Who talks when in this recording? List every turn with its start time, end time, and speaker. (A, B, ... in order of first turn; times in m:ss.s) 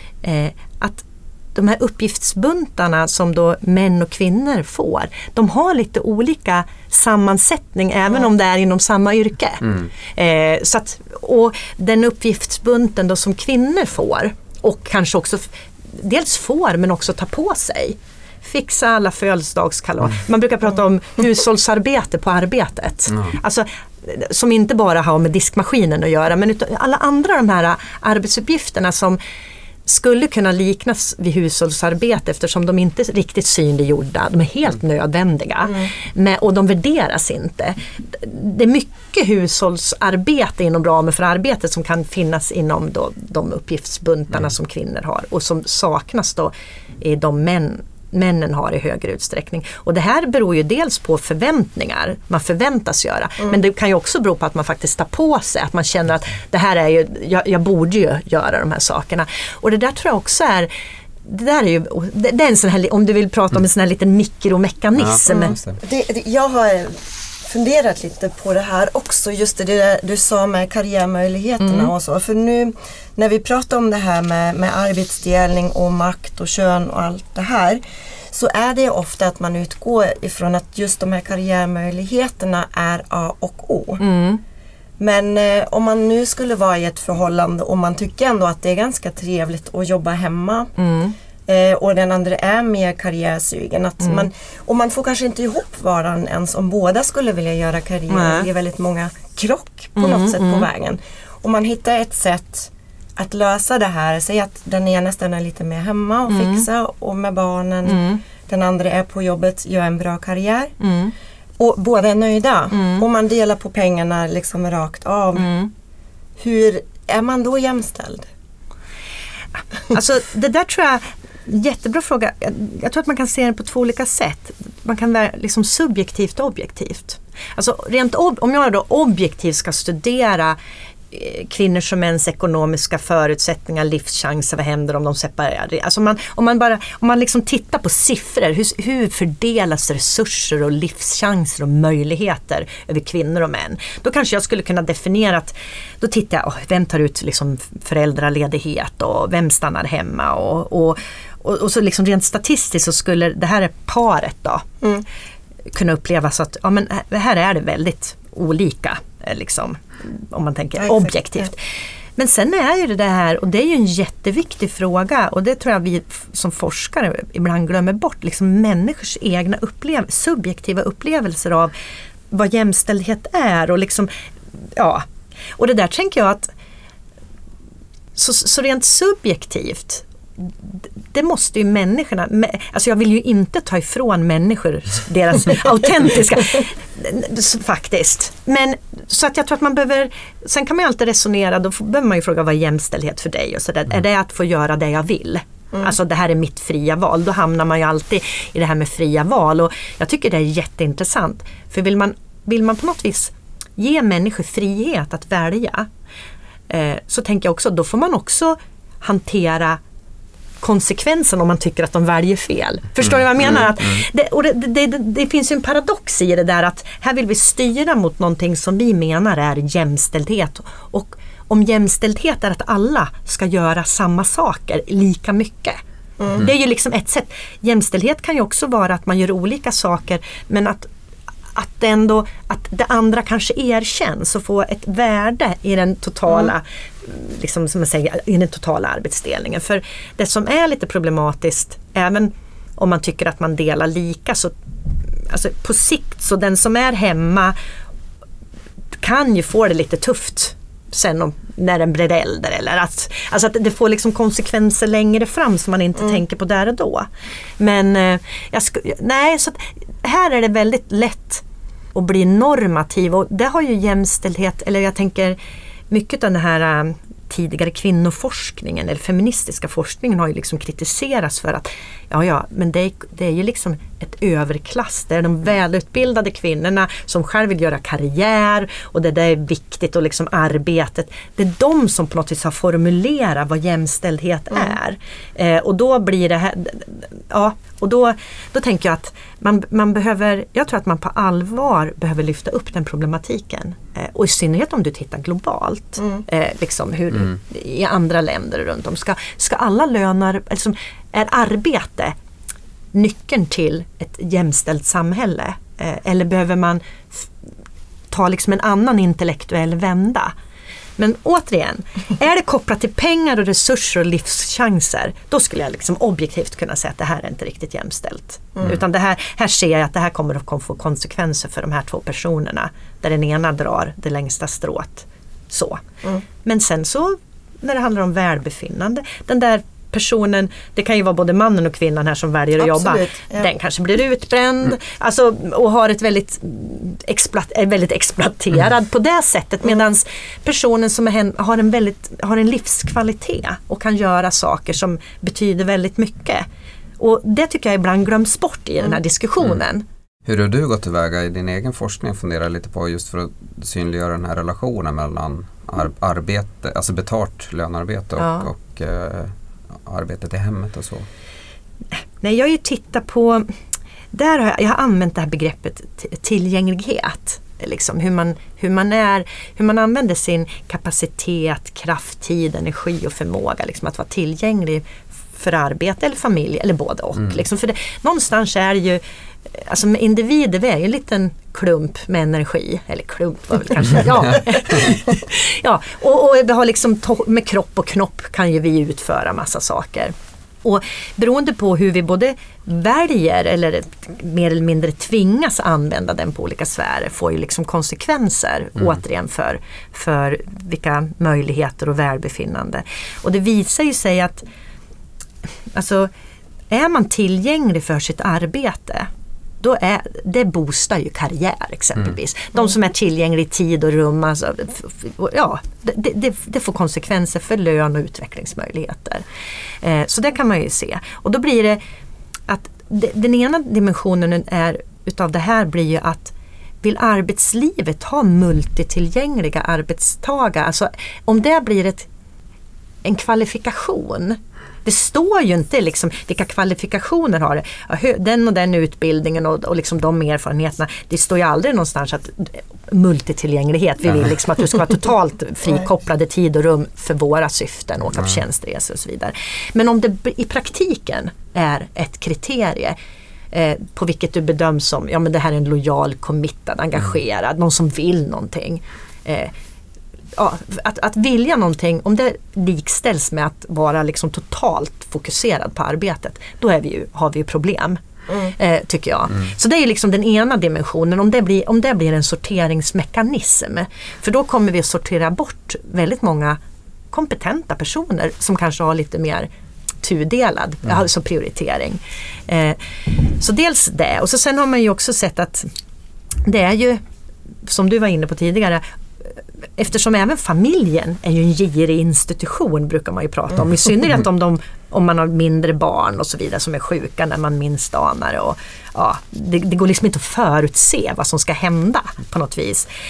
0:00.2-0:29.2 A
0:29.8-1:00.7 A
1:01.2-1:05.6 A
1:05.0-1:05.8 B
1:05.3-1:24.0 C
1:11.6-1:11.9 A
1:24.0-1:24.4 A
1:25.0-1:30.7 C
1:30.8-1:31.1 A
1:31.5-1:50.8 C
1:34.0-1:34.3 A
1:38.1-1:38.5 A
1:40.0-1:40.7 A
1:46.3-1:46.6 A
1:47.8-1:48.2 A
1:50.8-1:51.1 A
1:51.6-1:55.5 C
1:52.7-1:53.0 A
1:55.4-1:55.7 A
1:56.4-1:58.3 C
1:59.9-2:10.6 A
2:11.1-2:34.7 A
2:35.7-2:41.6 A
2:40.8-2:41.4 C
2:42.2-2:51.7 A
2:52.3-2:54.1 A
2:54.8-2:55.0 A
2:55.6-2:56.5 A
2:58.1-3:25.9 A
3:26.7-3:29.8 A
3:30.6-3:45.8 A
3:46.3-3:50.9 A
3:51.5-4:04.6 A
4:05.3-4:07.6 A
4:09.0-4:21.4 A
4:21.9-4:25.4 A
4:25.9-5:02.2 A
5:02.9-5:07.3 A
5:08.1-5:10.3 A
5:11.0-5:25.8 A
5:26.4-5:46.4 A
5:32.6-5:33.5 C
5:47.0-5:49.8 A
5:50.2-6:01.1 B
5:58.2-5:58.5 A
6:02.2-6:03.5 A
6:04.1-6:44.4 A
6:45.7-6:46.1 A
6:46.7-6:49.1 A
6:49.6-6:59.2 A
6:59.8-7:01.8 A
7:02.5-7:12.1 A
7:13.0-7:33.0 A
7:33.5-7:39.5 A
7:40.4-7:48.0 A
7:48.3-7:48.5 C
7:48.5-7:56.6 A
7:57.1-7:59.5 A
8:00.0-8:05.7 A
8:06.4-8:07.0 A
8:07.6-8:08.8 A
8:09.8-8:22.9 A